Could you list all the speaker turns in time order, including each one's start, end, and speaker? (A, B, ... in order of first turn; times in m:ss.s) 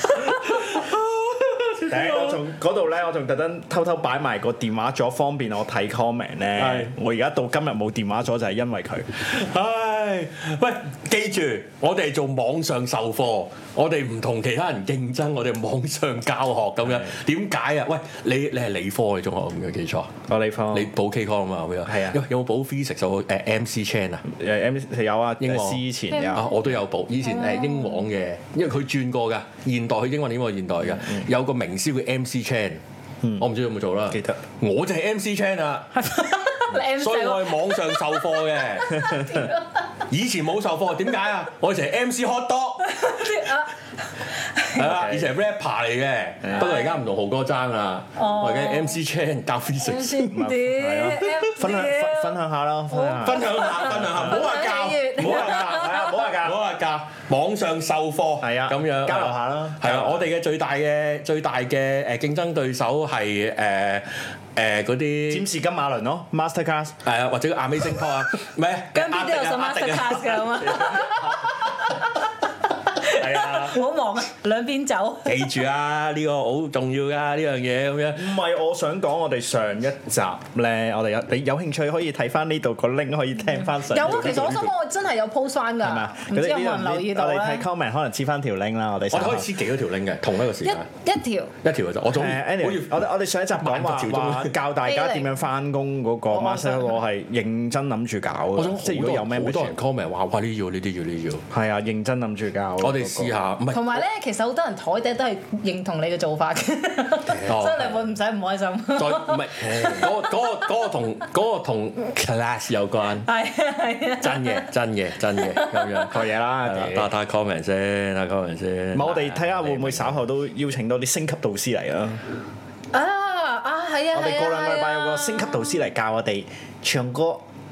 0:00.1-0:02.4 A
0:01.8-0:09.3 B
0:06.6-0:06.9 A
0:09.2-0:20.1 A
0:20.3-0:20.9 B
0:20.7-0:24.2 A
0:21.8-0:22.2 B
0:24.2-0:26.5 B
0:25.4-0:32.8 A
0:26.1-0:26.5 C
0:27.3-0:28.0 C
0:33.4-0:35.9 A
0:34.1-0:34.4 B
0:35.9-0:38.1 C
0:36.7-0:39.5 A
0:38.8-0:39.8 C
0:40.1-0:43.2 A
0:42.8-0:44.8 C
0:44.7-0:50.5 A
0:44.8-0:45.3 B
0:46.6-0:47.0 C
0:48.2-0:49.0 C
0:49.8-0:52.4 C
0:50.3-0:54.6 B
0:51.0-0:51.4 A
0:52.9-0:56.3 C
0:53.2-1:05.5 A
0:55.2-0:56.6 B
0:58.4-1:00.3 B
1:05.3-1:07.0 B
1:07.0-1:11.5 A
1:08.9-1:15.5 C
1:13.1-1:13.8 B
1:15.2-1:18.4 A
1:18.1-1:24.6 B
1:23.8-1:27.6 C
1:23.9-1:24.7 A
1:25.8-1:29.5 B
1:29.1-1:30.9 A
1:30.6-1:31.5 C
1:31.6-1:33.0 A
1:32.1-1:39.8 B
1:33.6-1:34.6 A
1:34.8-1:35.3 C
1:36.3-1:37.0 C
1:38.6-1:41.4 A
1:41.5-1:43.4 B
1:42.8-1:44.0 A
1:43.7-1:50.4 C
1:47.3-1:48.0 A
1:48.9-1:53.3 A
1:53.3-1:54.7 C
1:54.2-2:00.2 A
1:55.4-1:56.1 C
1:56.1-1:57.1 B
1:58.9-2:02.2 B
2:02.9-2:05.8 C
2:04.1-2:07.4 B